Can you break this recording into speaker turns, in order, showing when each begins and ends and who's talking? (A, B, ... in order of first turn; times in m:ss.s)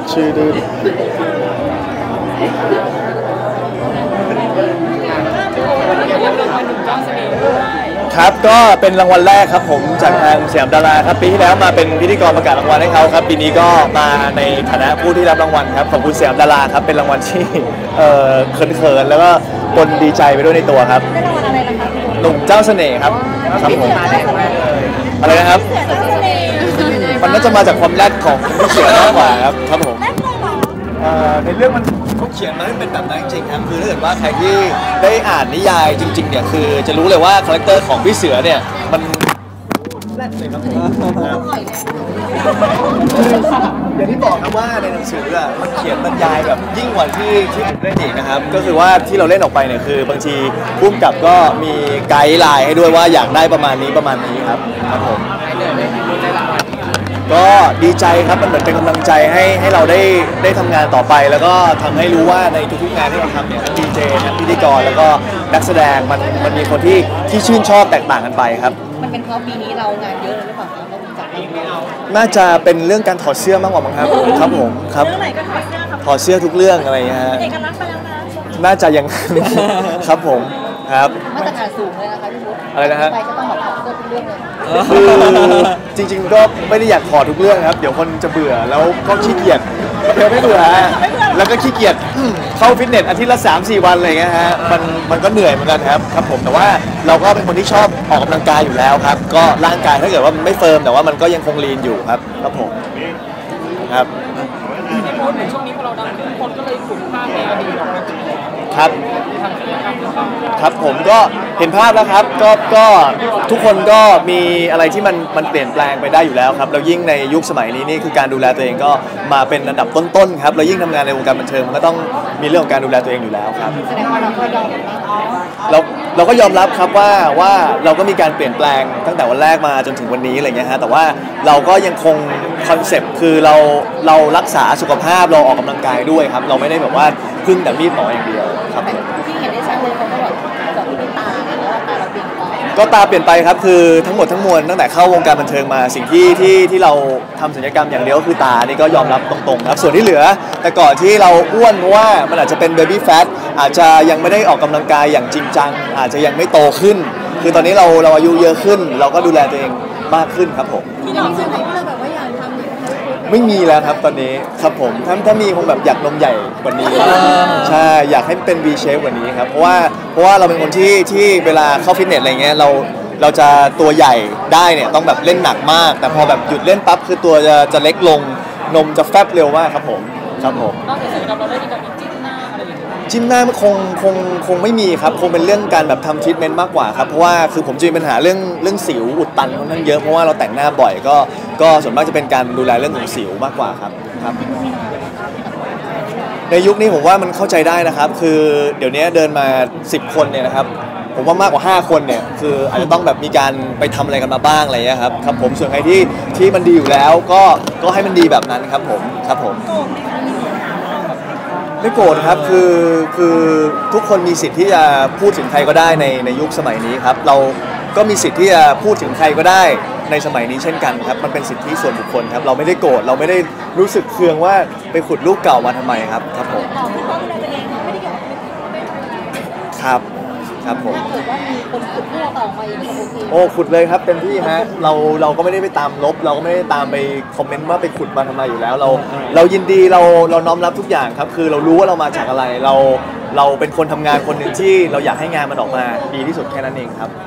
0:05.7-0:06.6 A
0:05.9-0:07.5 B
0:08.1-0:21.0 C
0:21.1-0:22.3 A
0:22.2-0:24.2 C
0:23.4-0:27.6 A
0:25.2-0:25.7 C
0:25.6-0:26.7 B
0:26.7-0:30.1 C
0:30.1-0:30.7 A
0:31.0-0:39.3 C
0:40.1-0:41.4 C
0:41.0-0:43.4 A
0:43.0-0:55.3 C
0:57.3-1:08.9 C
1:08.9-1:11.7 A
1:12.1-1:15.2 C
1:15.1-1:16.0 A
1:16.0-1:17.6 C
1:17.4-1:18.3 A
1:18.5-1:21.5 C
1:21.3-1:24.6 A
1:22.7-1:23.1 C
1:24.7-1:42.8 C
1:45.2-1:48.0 B
1:48.7-1:49.0 C
1:49.4-1:50.4 B
1:50.6-2:03.8 C
2:03.9-2:05.5 A
2:05.7-2:19.0 C
2:18.8-2:22.8 A
2:22.7-2:40.9 C
2:41.0-2:43.4 A
2:43.2-3:00.8 C
2:47.2-2:47.5 A
3:00.9-3:03.0 B
3:03.1-3:14.4 C
3:14.2-3:16.4 A
3:16.5-3:29.6 C
3:31.8-3:46.7 C
3:46.5-3:49.0 A
3:49.7-3:50.0 C
3:50.6-3:51.0 C
3:50.7-3:53.5 A
3:53.3-4:07.1 C